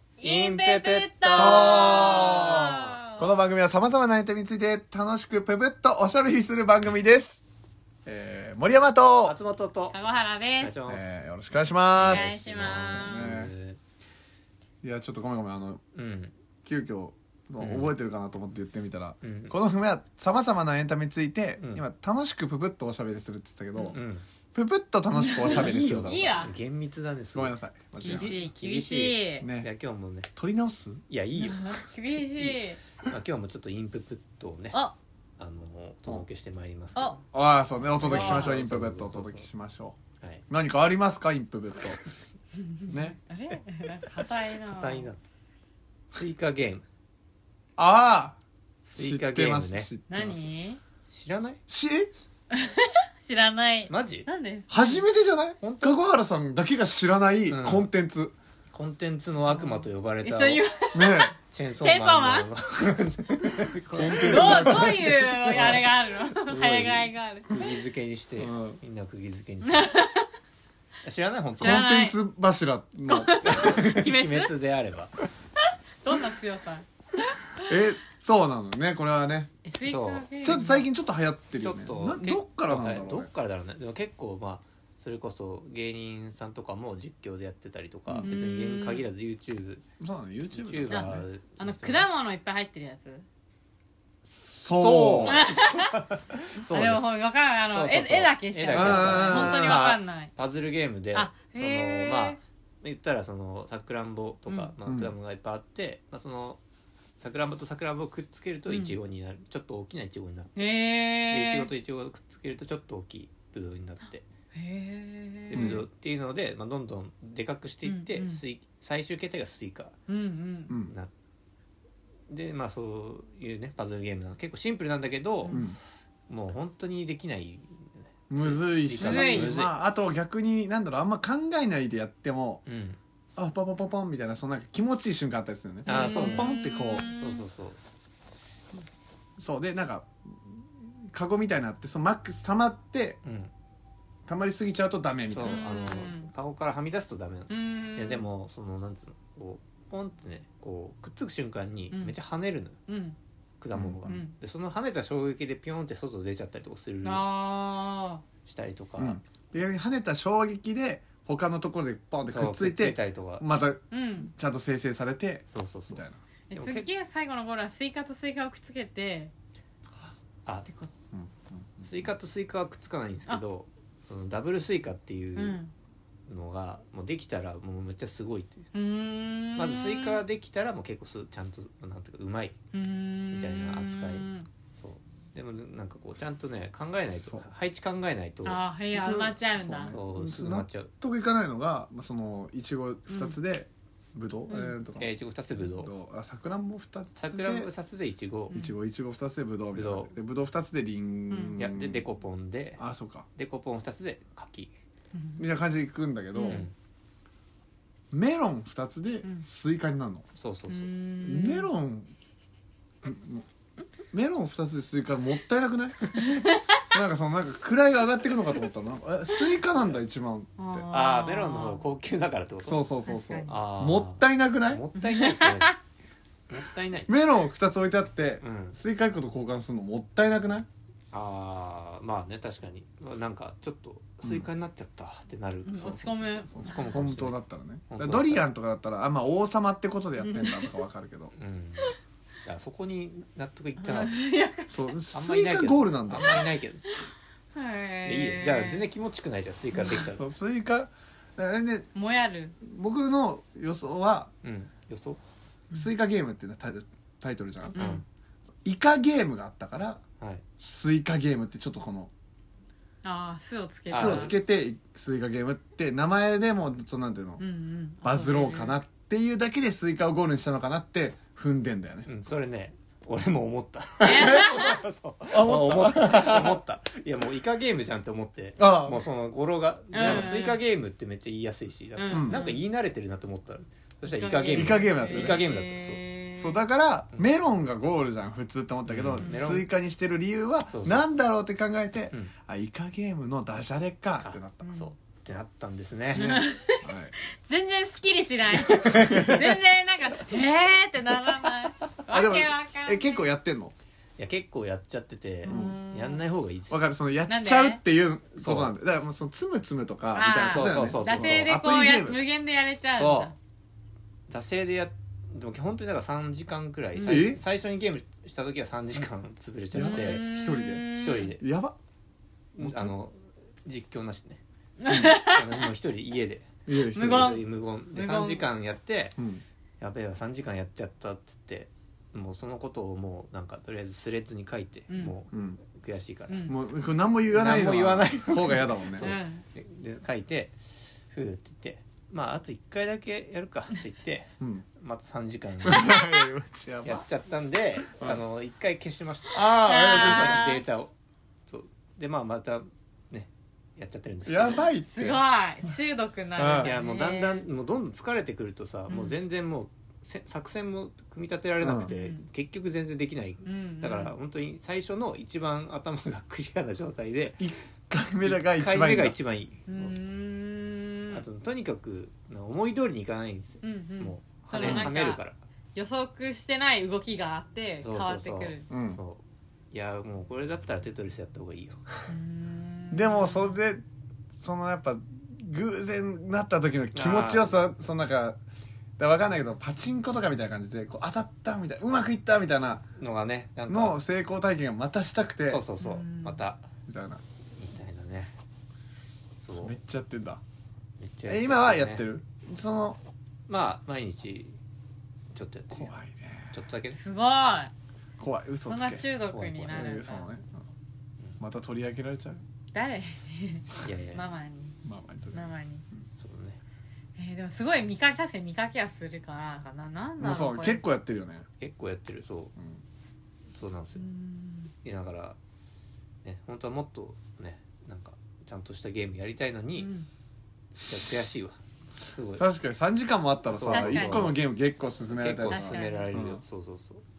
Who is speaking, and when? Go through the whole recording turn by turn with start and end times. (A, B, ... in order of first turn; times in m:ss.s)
0:00.2-0:03.3 A
0:00.2-0:02.9 B
0:01.3-0:07.4 C
0:08.0-0:09.3 C
0:09.2-0:10.0 B
0:09.9-0:10.7 A
0:10.6-0:11.0 B
0:10.9-0:13.5 C
0:12.0-0:13.4 A
0:12.0-0:13.8 B
0:14.8-0:15.8 C
0:15.9-0:16.3 B
0:16.6-0:24.0 C
0:17.6-0:18.0 B
0:19.2-0:19.6 B
0:23.9-0:24.2 B
0:24.5-0:26.5 C
0:25.1-0:26.6 A
0:25.4-0:30.3 B
0:27.3-0:28.4 C
0:28.0-0:29.5 A
0:29.4-0:29.7 C
0:30.3-0:31.0 C
0:31.1-0:34.8 B
0:31.4-0:32.8 A
0:35.4-0:37.2 B
0:37.0-0:37.2 A
0:37.3-0:40.0 C
0:38.0-0:39.5 B
0:38.0-0:38.6 A
0:40.5-0:42.0 C
0:42.9-0:43.2 C
0:43.3-0:45.1 A
0:44.6-0:45.2 B
0:46.1-0:46.8 B
0:47.8-0:48.4 C
0:48.8-0:49.9 B
0:48.9-0:50.5 C
0:50.1-0:50.8 A
0:51.0-0:51.6 B
0:51.7-0:52.1 C
0:52.5-0:55.0 A
0:53.9-0:54.2 B
0:54.7-0:58.3 C
0:55.6-0:56.0 B
0:57.5-0:57.9 B
0:58.7-1:00.6 B
0:59.5-1:02.5 A
1:00.9-1:01.3 C
1:01.5-1:09.9 B
1:03.6-1:05.8 C
1:04.0-1:07.8 A
1:08.4-1:08.8 C
1:09.6-1:10.3 A
1:11.0-1:11.9 B
1:11.6-1:12.2 A
1:11.6-1:13.8 C
1:13.1-1:14.5 A
1:13.4-1:15.2 B
1:16.0-1:17.8 A
1:17.6-1:19.5 C
1:19.6-1:20.9 A
1:19.8-1:20.6 B
1:20.4-1:23.3 C
1:21.6-1:29.8 B
1:28.2-1:29.0 A
1:30.0-1:31.2 C
1:30.5-1:32.1 B
1:30.9-1:33.2 A
1:34.3-1:35.5 C
1:34.7-1:37.1 B
1:35.2-1:36.1 A
1:36.6-1:40.3 A
1:37.7-1:46.6 B
1:38.7-1:39.8 C
1:41.1-1:42.4 A
1:44.5-1:44.7 A
1:44.8-1:45.1 C
1:47.2-1:50.6 B
1:48.7-1:49.0 A
1:50.6-1:51.7 A
1:51.3-1:54.2 B
1:54.5-1:55.8 A
1:55.5-1:59.9 B
1:55.5-1:55.8 C
1:57.8-1:58.4 A
2:00.1-2:00.7 A
2:00.7-2:00.9 C
2:02.3-2:05.6 B
2:05.5-2:05.8 C
2:06.3-2:09.7 B
2:08.3-2:12.6 C
2:09.0-2:09.5 A
2:12.6-2:13.0 B
2:13.4-2:17.1 C
2:15.8-2:17.8 B
2:15.8-2:17.4 A
2:19.4-2:23.2 C
2:23.2-2:23.5 B
2:24.3-2:25.6 C
2:25.3-2:32.8 B
2:25.4-2:26.3 A
2:27.5-2:28.3 A
2:32.9-2:33.2 A
2:33.6-2:37.2 B
2:33.7-2:34.2 C
2:34.0-2:34.3 A
2:37.0-2:38.2 A
2:38.4-2:39.2 B
2:39.0-2:46.2 C
2:42.3-2:43.4 B
2:43.9-2:44.3 A
2:45.5-2:46.9 B
2:46.5-2:49.3 A
2:51.1-2:52.0 C
2:51.8-2:55.6 B
2:55.4-2:55.7 A
2:56.3-2:58.6 B
2:58.7-3:00.2 A
2:59.6-3:02.6 B
3:02.7-3:04.5 A
3:03.3-3:08.6 B
3:07.0-3:07.5 C
3:08.4-3:09.9 A
3:08.9-3:15.1 C
3:09.8-3:10.9 B
3:14.5-3:14.8 A
3:15.0-3:15.9 B
3:15.7-3:17.7 C
3:17.2-3:18.5 B
3:18.5-3:18.8 A
3:18.5-3:22.0 C
3:19.7-3:20.1 B
3:21.3-3:21.6 A
3:21.6-3:22.8 B
3:22.8-3:23.3 C
3:23.3-3:24.7 B
3:25.1-3:25.4 A
3:25.4-3:26.7 C
3:26.3-3:26.7 A
3:26.4-3:26.7 B
3:28.1-3:30.2 C
3:30.3-3:30.9 B
3:30.7-3:31.7 A
3:31.2-3:32.1 C
3:33.0-3:33.4 C
3:34.1-3:36.1 C
3:36.2-3:36.8 A
3:36.9-3:40.9 C
3:40.6-3:41.9 A
3:40.9-3:42.9 B
3:42.6-3:44.8 C
3:43.0-3:43.5 A
3:43.5-3:45.8 B
3:45.0-3:45.8 A
3:46.5-3:47.1 B
3:47.1-3:50.7 C
3:48.4-3:48.8 B
3:51.1-3:58.5 B
3:54.2-3:54.5 C
3:55.6-3:57.0 A
3:56.5-4:01.3 C
4:00.2-4:00.8 A
4:01.3-4:04.2 B
4:03.8-4:05.0 A
4:04.7-4:06.4 C
4:05.1-4:06.8 B
4:06.2-4:07.0 A
4:07.5-4:08.9 A
4:08.0-4:10.2 B
4:09.9-4:11.9 C
4:11.9-4:12.5 A
4:12.6-4:14.3 C
4:14.4-4:15.2 B
4:15.7-4:17.8 C
4:17.7-4:18.0 A
4:17.8-4:18.0 B
4:18.6-4:20.0 C
4:20.6-4:22.1 C
4:23.0-4:24.3 A
4:23.9-4:24.3 B
4:23.9-4:27.4 C
4:27.4-4:28.8 A
4:28.0-4:32.1 C
4:32.0-4:46.0 B
4:34.0-4:34.8 A
4:35.3-4:36.6 C
4:38.6-4:39.1 C
4:39.9-4:40.6 A
4:40.0-4:40.3 C
4:42.0-4:42.6 A
4:42.1-4:42.4 C
4:44.1-4:46.6 A
4:44.5-4:45.4 C
4:46.4-4:54.6 C
4:48.8-4:49.7 B
4:49.2-4:49.6 A
4:50.7-4:51.1 B
4:54.2-4:56.3 B
4:54.6-4:54.9 A
4:56.1-4:57.1 C
4:56.1-5:03.2 A
4:58.6-4:59.5 B
4:58.9-4:59.4 C
5:02.1-5:03.7 C
5:04.2-5:06.8 B
5:05.4-5:06.2 A
5:05.5-5:05.8 C
5:06.7-5:12.2 C
5:07.3-5:07.8 A
5:08.4-5:08.7 B
5:10.1-5:13.4 A
5:10.5-5:11.6 B
5:12.9-5:13.3 B
5:14.3-5:20.3 B
5:17.0-5:17.3 A
5:17.0-5:17.4 C
5:19.7-5:21.7 C
5:19.7-5:21.4 A
5:20.9-5:21.4 B
5:22.5-5:24.4 B
5:22.6-5:22.9 C
5:24.8-5:25.6 A
5:24.9-5:25.1 C
5:25.2-5:29.2 B
5:26.6-5:27.4 C
5:26.9-5:28.4 A
5:29.2-5:29.4 C
5:29.8-5:36.6 B
5:34.9-5:35.1 A
5:35.3-5:35.6 C
5:36.3-5:36.6 A
5:36.5-5:39.1 C
5:37.3-5:45.9 B
5:39.0-5:39.4 A
5:44.4-5:44.6 C
5:45.6-5:47.0 C
5:46.8-5:50.9 B
5:47.9-5:48.2 C
5:49.3-5:50.6 C
5:49.6-5:50.6 A
5:51.5-5:54.7 B
5:54.2-5:55.2 C
5:54.9-5:57.4 A
5:56.4-5:56.7 C
5:56.6-6:07.4 B
5:58.9-5:59.2 A
6:01.6-6:01.9 C
6:01.9-6:02.2 A
6:03.4-6:04.1 A
6:07.4-6:09.2 C
6:08.2-6:09.9 B
6:09.7-6:11.2 A
6:11.1-6:15.4 B
6:13.6-6:15.2 A
6:14.6-6:14.9 C
6:15.7-6:18.7 A
6:17.8-6:21.8 B
6:18.7-6:19.0 C
6:22.1-6:23.6 A
6:22.9-6:23.8 C
6:24.4-6:28.4 C
6:26.9-6:27.6 B
6:29.0-6:32.8 C
6:33.0-6:34.0 B
6:33.7-6:35.6 C
6:35.4-6:36.6 B
6:35.8-6:36.4 A
6:36.9-6:37.2 C
6:37.6-6:38.3 B
6:39.4-6:39.8 B
6:39.5-6:40.4 C
6:41.0-6:42.0 B
6:41.3-6:43.0 C
6:43.5-6:44.6 B
6:45.3-6:45.9 B
6:45.7-6:46.6 C
6:46.5-6:47.0 B
6:46.9-6:47.7 A
6:48.2-6:49.1 C
6:48.7-6:50.3 A
6:49.3-6:50.0 B
6:49.7-6:50.6 C
6:51.4-6:52.4 C
6:52.7-6:54.8 A
6:53.8-6:54.3 B
6:54.8-6:55.5 C
6:55.3-6:55.8 A
6:56.2-6:56.6 B
6:57.2-7:00.8 A
7:00.2-7:01.4 C
7:01.6-7:02.5 B
7:03.5-7:04.0 B
7:03.9-7:04.7 A
7:04.8-7:05.4 B
7:06.2-7:09.9 B
7:09.8-7:10.1 A
7:10.8-7:12.4 B
7:12.4-7:16.4 C
7:13.5-7:14.4 B
7:13.7-7:14.3 A
7:15.1-7:17.0 B
7:15.4-7:16.1 A